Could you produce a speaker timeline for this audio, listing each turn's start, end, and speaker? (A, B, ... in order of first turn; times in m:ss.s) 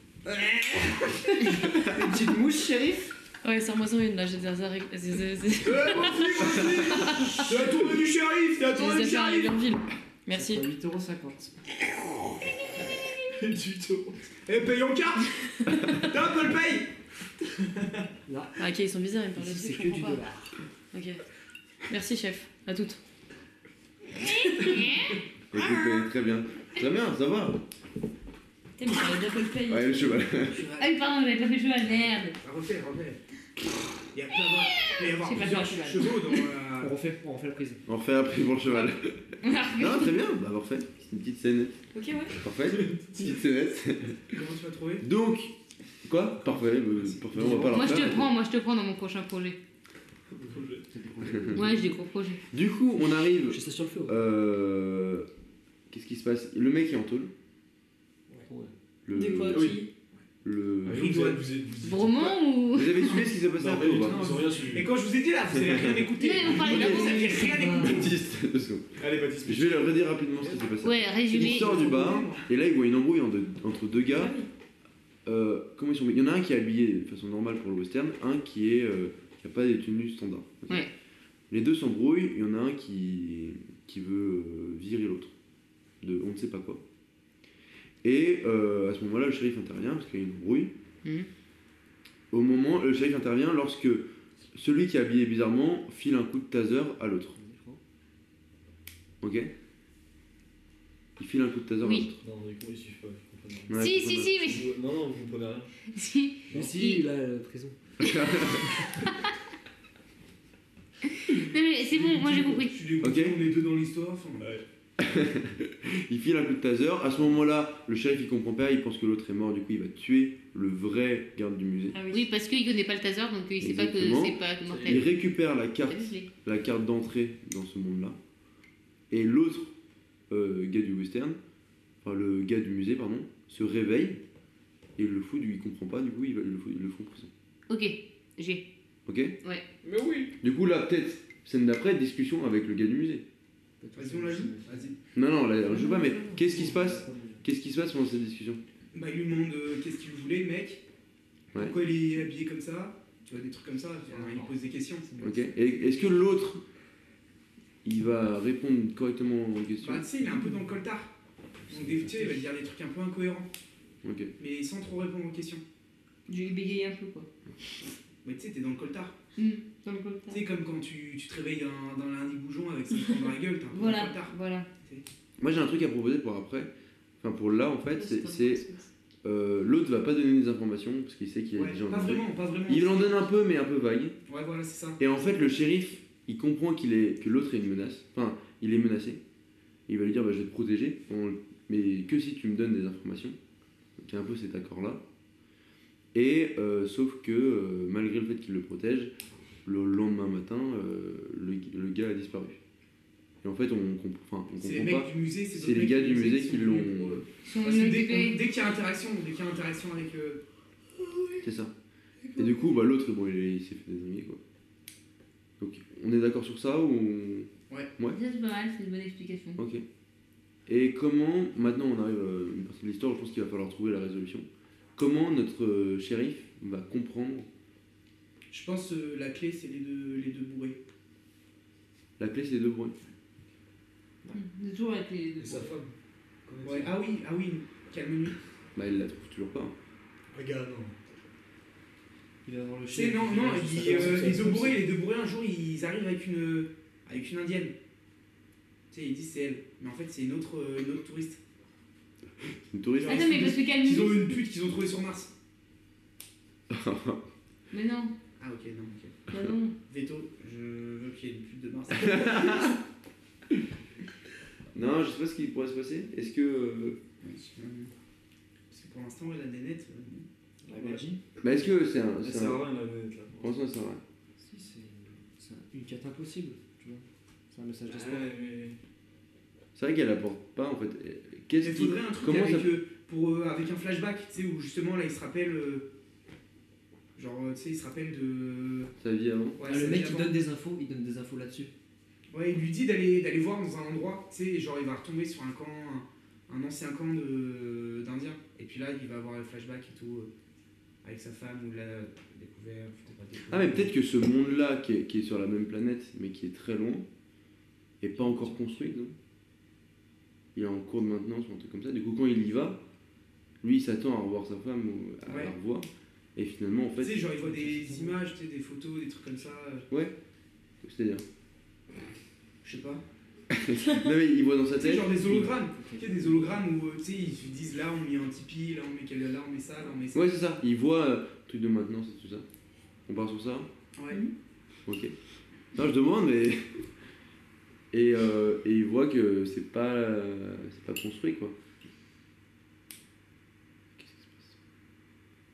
0:00.2-0:01.6 A
0:01.7-0:03.0 B
0:03.4-0:07.4 C
0:05.6-0:09.5 A
0:06.6-0:07.0 D
0:08.7-0:10.6 C
0:10.3-0:11.5 B
0:13.3-0:14.2 D
0:14.5-0:16.9 A
0:15.7-0:16.0 C
0:18.2-0:18.6 B
0:18.6-0:20.2 C
0:19.3-0:20.5 B
0:20.9-0:21.2 C
0:21.9-0:23.0 C
0:24.2-0:24.8 C
0:24.2-0:25.2 E
0:25.5-0:27.6 F
0:28.8-0:30.2 C
0:29.7-0:30.6 F
0:30.7-0:32.4 E
0:32.0-0:33.2 A
0:34.1-0:36.9 A
0:34.6-0:36.4 E
0:36.8-0:37.8 B
0:37.8-0:41.8 F
0:39.4-0:40.1 E
0:41.9-0:42.4 C
0:42.3-0:44.3 F
0:44.3-0:45.1 A
0:45.0-0:48.3 F
0:46.9-0:47.6 A
0:47.3-0:47.7 B
0:47.4-0:47.7 D
0:47.7-0:49.6 E
0:50.3-0:50.9 D
0:50.9-0:51.9 B
0:51.5-0:52.4 E
0:52.5-0:55.3 F
0:53.5-0:54.2 B
0:55.9-0:57.3 F
0:58.5-0:58.7 B
0:59.0-0:59.8 F
0:59.1-0:59.9 C
0:59.5-0:59.8 D
1:00.4-1:01.0 F
1:00.8-1:02.4 D
1:00.9-1:01.5 A
1:01.8-1:03.3 E
1:02.7-1:04.2 F
1:03.5-1:04.9 D
1:04.0-1:08.2 A
1:05.5-1:07.2 F
1:06.2-1:07.8 E
1:07.5-1:07.9 B
1:07.7-1:14.3 F
1:09.0-1:10.7 D
1:10.8-1:11.8 E
1:11.3-1:12.5 A
1:14.1-1:14.5 C
1:15.2-1:20.8 F
1:21.5-1:25.3 F
1:26.0-1:26.8 F
1:28.0-1:30.7 F
1:32.3-1:37.4 F
1:37.4-1:37.8 B
1:39.2-1:39.5 F
1:41.2-1:42.2 F
1:42.1-1:43.8 D
1:43.7-1:44.6 F
1:43.8-1:44.7 E
1:44.4-1:45.7 D
1:45.9-1:47.0 E
1:46.5-1:47.8 B
1:48.0-1:48.8 F
1:51.2-1:52.8 E
1:51.8-1:54.5 A
1:53.0-1:53.4 F
1:54.4-1:54.6 D
1:55.0-2:02.0 F
2:01.9-2:02.3 C
2:02.1-2:05.1 E
2:03.6-2:08.2 F
2:04.6-2:05.0 D
2:05.8-2:06.3 E
2:09.1-2:09.7 F
2:10.3-2:11.4 F
2:12.0-2:14.2 F
2:15.0-2:17.3 F
2:17.7-2:18.6 E
2:19.0-2:19.4 F
2:19.8-2:20.3 D
2:20.4-2:23.2 F
2:23.8-2:24.9 B
2:24.0-2:25.0 A
2:25.1-2:28.6 F
2:25.7-2:27.4 B
2:28.9-2:30.8 A
2:31.5-2:35.2 A
2:34.1-2:34.5 B
2:35.2-2:36.6 F
2:37.8-2:40.1 F
2:39.8-2:41.1 A
2:41.7-2:42.4 B
2:41.7-2:43.5 A
2:44.0-2:44.3 F
2:44.4-2:45.6 A
2:46.3-2:47.3 E
2:48.2-2:49.2 A
2:49.4-2:50.4 E
2:50.3-2:55.0 A
2:53.7-2:54.7 E
2:55.4-2:58.6 F
2:57.9-2:58.9 C
2:59.2-3:04.2 F
3:01.6-3:03.2 A
3:04.3-3:05.0 A
3:05.0-3:09.2 F
3:09.9-3:13.4 F
3:14.0-3:15.0 F
3:16.1-3:19.1 F
3:19.6-3:22.6 F
3:23.4-3:27.2 F
3:24.6-3:30.4 A
3:27.4-3:28.4 E
3:31.4-3:31.7 F
3:32.4-3:34.4 F
3:35.6-3:38.2 F
3:38.1-3:39.6 E
3:39.6-3:39.8 F
3:40.7-3:47.5 F
3:48.5-3:50.8 A
3:52.2-3:52.9 F
3:54.3-3:55.7 E
3:55.4-3:55.9 D
3:56.4-3:57.0 D
3:56.6-3:58.4 A
3:58.7-3:59.7 F
4:00.3-4:01.1 D
4:02.4-4:04.8 B
4:02.9-4:07.7 A
4:03.8-4:04.7 D
4:08.9-4:11.4 A
4:12.7-4:13.5 F
4:13.0-4:15.3 A
4:13.0-4:14.3 E
4:16.7-4:17.2 F
4:17.7-4:18.1 E
4:18.4-4:19.3 A
4:19.3-4:19.8 E
4:19.8-4:22.8 A
4:21.9-4:22.8 F
4:24.7-4:27.0 F
4:27.2-4:27.9 A
4:28.7-4:30.3 A
4:30.6-4:31.2 B
4:30.7-4:31.1 D
4:31.4-4:32.6 F
4:32.2-4:33.5 D
4:33.4-4:34.0 F
4:34.4-4:38.3 B
4:37.9-4:38.8 D
4:39.7-4:42.8 F
4:41.6-4:45.8 A
4:47.1-4:48.9 A
4:49.0-4:49.7 F
4:49.6-4:50.3 A
4:49.7-4:51.7 B
4:52.3-5:00.3 A
5:01.0-5:03.9 A
5:03.5-5:07.0 F
5:08.0-5:09.1 F
5:10.5-5:12.8 F
5:13.6-5:17.3 F
5:15.2-5:15.5 A
5:17.0-5:19.9 A
5:17.4-5:18.2 B
5:20.8-5:21.2 F
5:22.6-5:23.0 A
5:23.5-5:25.5 F
5:24.8-5:30.4 A
5:25.3-5:26.6 B
5:30.1-5:32.4 F
5:33.1-5:33.7 F
5:34.0-5:34.2 A
5:34.8-5:35.1 F
5:35.7-5:36.8 F
5:37.9-5:41.5 F
5:44.0-5:44.5 F